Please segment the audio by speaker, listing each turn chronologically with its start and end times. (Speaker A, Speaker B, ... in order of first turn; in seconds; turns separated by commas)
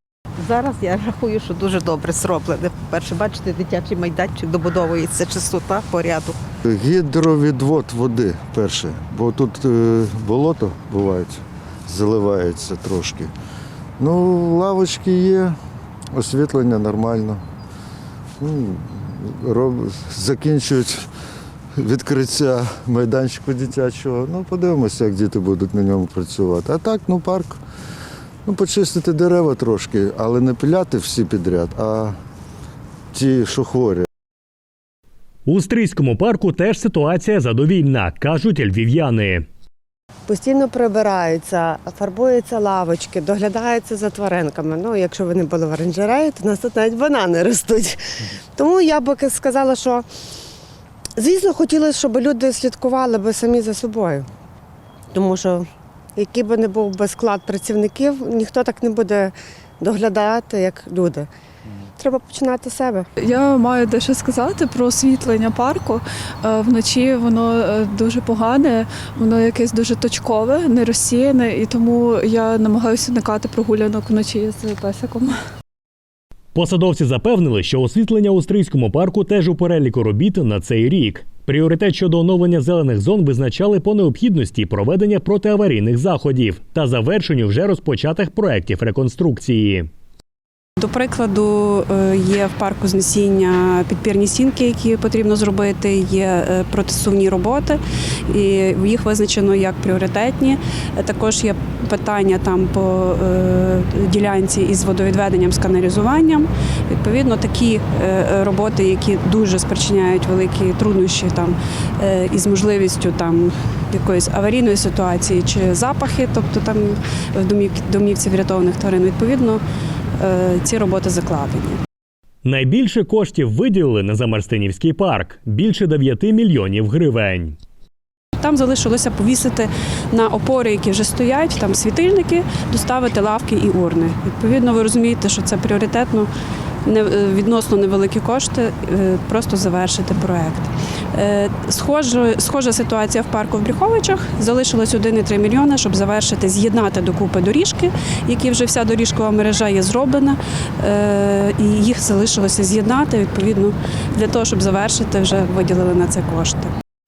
Speaker A: 0.4-6.3, Speaker B: 6.7-13.3, Speaker B: 14.0-15.6, Speaker B: 16.1-17.4, Speaker B: 18.4-21.1, Speaker B: 21.8-27.6, Speaker B: 28.4-32.2, Speaker B: 33.1-34.0, Speaker C: 35.5-39.5, Speaker D: 40.3-48.0, Speaker D: 48.5-50.0, Speaker D: 51.2-54.3, Speaker D: 55.1-55.6, Speaker D: 56.1-61.3, Speaker D: 62.0-63.1, Speaker E: 63.2-75.4, Speaker C: 76.5-89.9, Speaker F: 90.8-119.6, Speaker F: 120.2-121.8, Speaker C: 122.4-127.6, Speaker F: 128.4-136.3, Speaker F: 136.8-156.7